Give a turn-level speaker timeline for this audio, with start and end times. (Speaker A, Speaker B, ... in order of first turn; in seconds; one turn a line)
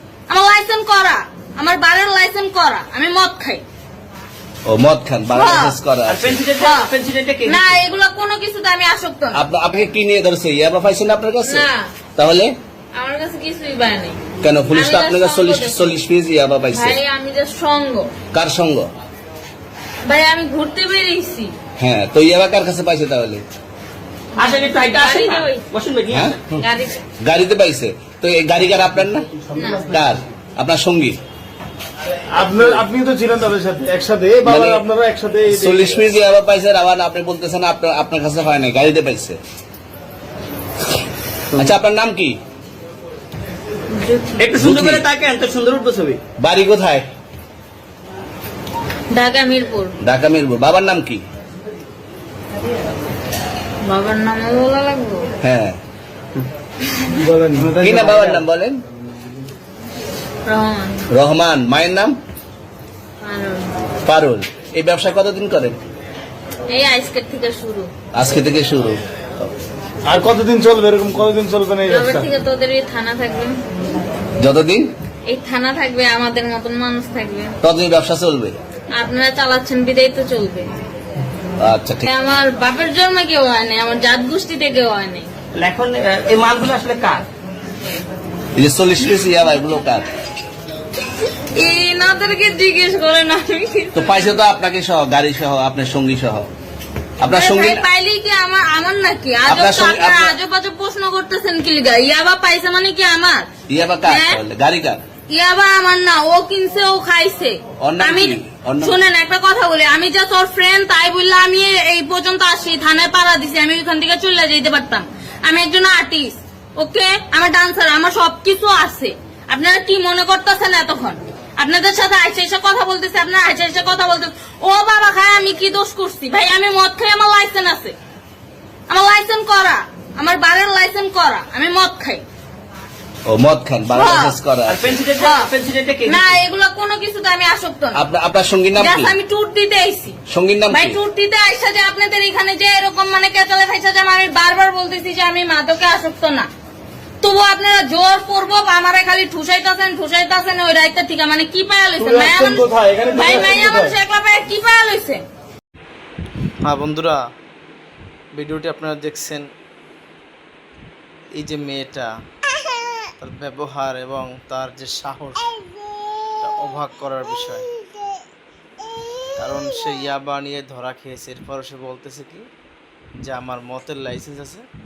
Speaker A: 0.3-3.6
Speaker B: 4.7-6.4
Speaker A: 5.3-5.7
Speaker C: 6.1-7.5
Speaker D: 6.1-6.9
Speaker A: 6.6-6.9
Speaker A: 7.4-9.4
Speaker B: 9.3-12.5
Speaker A: 11.4-11.9
Speaker A: 12.9-14.2
Speaker B: 14.4-17.0
Speaker A: 14.7-15.9
Speaker A: 16.7-18.1
Speaker B: 18.3-18.9
Speaker A: 20.1-21.5
Speaker B: 21.8-23.4
Speaker A: 24.4-25.6
Speaker C: 24.4-26.3
Speaker D: 24.6-26.3
Speaker B: 26.1-26.4
Speaker A: 26.5-27.0
Speaker B: 27.2-29.3
Speaker A: 29.5-29.9
Speaker B: 29.9-31.2
Speaker E: 32.3-36.0
Speaker B: 34.4-34.8
Speaker B: 35.5-39.4
Speaker B: 41.5-42.4
Speaker A: 43.9-44.5
Speaker D: 44.4-44.9
Speaker C: 44.4-46.2
Speaker B: 44.6-45.0
Speaker B: 46.4-47.0
Speaker A: 49.1-50.0
Speaker B: 50.0-51.2
Speaker A: 53.8-55.3
Speaker B: 55.4-55.8
Speaker E: 57.2-58.4
Speaker B: 57.8-58.8
Speaker A: 60.5-61.0
Speaker B: 61.1-62.1
Speaker A: 63.2-63.7
Speaker B: 64.0-65.8
Speaker A: 66.7-67.9
Speaker B: 68.1-69.0
Speaker E: 70.0-72.3
Speaker A: 71.8-73.5
Speaker B: 74.4-74.9
Speaker A: 75.3-77.5
Speaker B: 77.6-78.5
Speaker A: 78.9-80.7
Speaker B: 81.6-82.1
Speaker A: 82.0-85.3
Speaker C: 85.5-87.2
Speaker B: 88.5-90.0
Speaker A: 91.5-94.2
Speaker B: 93.9-96.5
Speaker B: 97.2-97.8
Speaker A: 97.2-103.5
Speaker B: 99.5-100.3
Speaker B: 103.7-105.0
Speaker A: 104.0-104.4
Speaker A: 105.3-128.0
Speaker B: 107.8-109.0
Speaker A: 128.9-132.2
Speaker B: 133.3-134.9
Speaker A: 133.9-134.4
Speaker C: 134.7-136.3
Speaker A: 135.2-135.5
Speaker A: 136.0-138.0
Speaker B: 137.9-139.1
Speaker A: 138.8-140.2
Speaker B: 140.3-141.0
Speaker A: 140.7-146.5
Speaker A: 147.2-155.2
Speaker E: 152.0-154.0
Speaker D: 156.6-157.2
Speaker D: 158.3-159.5
Speaker D: 161.3-162.1
Speaker D: 163.2-165.5
Speaker D: 166.4-167.7
Speaker D: 169.4-172.4
Speaker D: 173.2-174.7